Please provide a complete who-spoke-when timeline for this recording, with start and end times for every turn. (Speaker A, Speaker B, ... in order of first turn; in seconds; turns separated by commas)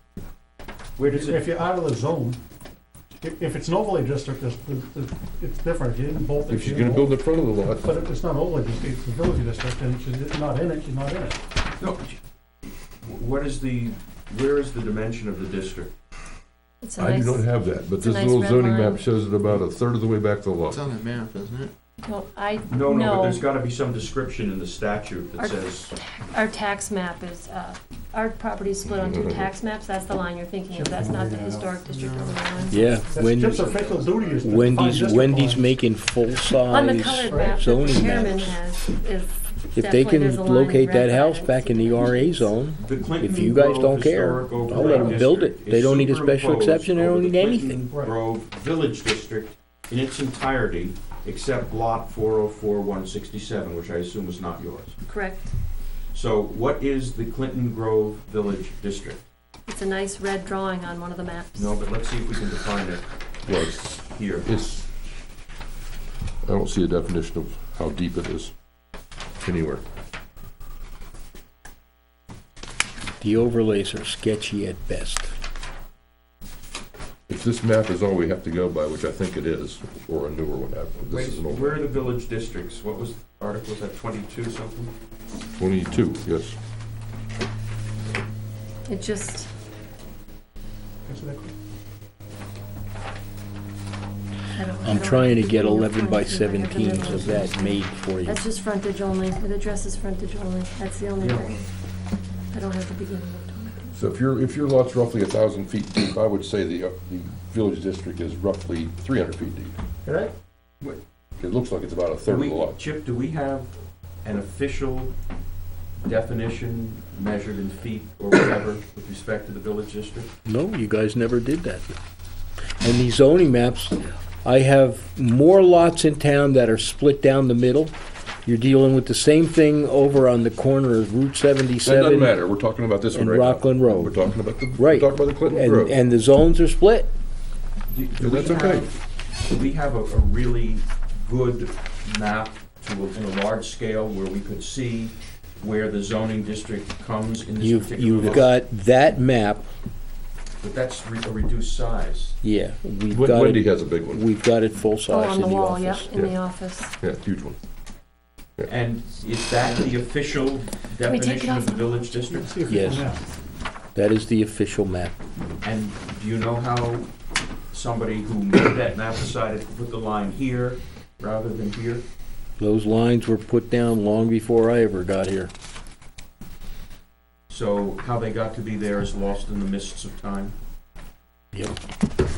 Speaker A: 1.0-1.6, Speaker B: 1.1-2.4, Speaker B: 3.2-7.1, Speaker C: 6.5-7.9, Speaker B: 7.8-11.4, Speaker A: 11.8-12.2, Speaker A: 13.0-15.9, Speaker D: 16.8-17.5, Speaker C: 17.0-20.9, Speaker D: 18.0-19.1, Speaker E: 20.7-21.7, Speaker D: 22.0-23.4, Speaker A: 22.7-25.9, Speaker D: 25.4-33.2, Speaker C: 28.8-29.5, Speaker B: 30.7-31.8, Speaker E: 31.8-32.7, Speaker F: 32.7-33.6, Speaker B: 33.1-35.7, Speaker E: 33.4-34.7, Speaker F: 34.4-38.6, Speaker D: 36.7-42.5, Speaker B: 37.2-37.6, Speaker F: 39.7-47.8, Speaker A: 42.8-55.0, Speaker B: 44.9-45.2, Speaker B: 47.9-48.1, Speaker D: 55.1-55.5, Speaker A: 56.1-59.2, Speaker D: 59.7-61.7, Speaker A: 61.5-63.0, Speaker C: 63.5-64.8, Speaker A: 64.0-64.5, Speaker C: 66.4-68.5, Speaker C: 69.4-69.8, Speaker F: 73.2-75.3, Speaker C: 77.3-81.8, Speaker A: 81.1-84.9, Speaker C: 85.6-86.6, Speaker D: 88.9-89.5, Speaker B: 91.0-91.5, Speaker D: 94.5-101.7, Speaker F: 94.8-98.4, Speaker A: 101.2-101.5, Speaker D: 102.5-103.9, Speaker C: 103.9-109.8, Speaker B: 110.0-110.3, Speaker C: 111.4-112.8, Speaker A: 112.2-113.7, Speaker A: 114.2-115.1, Speaker A: 116.0-120.3, Speaker F: 120.5-121.9, Speaker F: 122.8-127.9, Speaker F: 128.4-132.4, Speaker C: 131.8-136.0, Speaker F: 133.1-134.2, Speaker F: 134.7-137.1, Speaker A: 137.9-148.5, Speaker C: 138.2-138.9, Speaker F: 147.6-149.7, Speaker A: 150.6-152.3, Speaker F: 152.4-156.2, Speaker C: 153.1-154.2, Speaker D: 155.1-156.9, Speaker C: 157.0-157.6, Speaker A: 158.7-162.6, Speaker D: 161.0-162.2, Speaker B: 162.2-163.3, Speaker F: 162.7-163.1, Speaker F: 163.9-165.1, Speaker A: 165.6-167.1, Speaker A: 167.7-172.0, Speaker F: 172.6-175.5, Speaker A: 177.5-180.5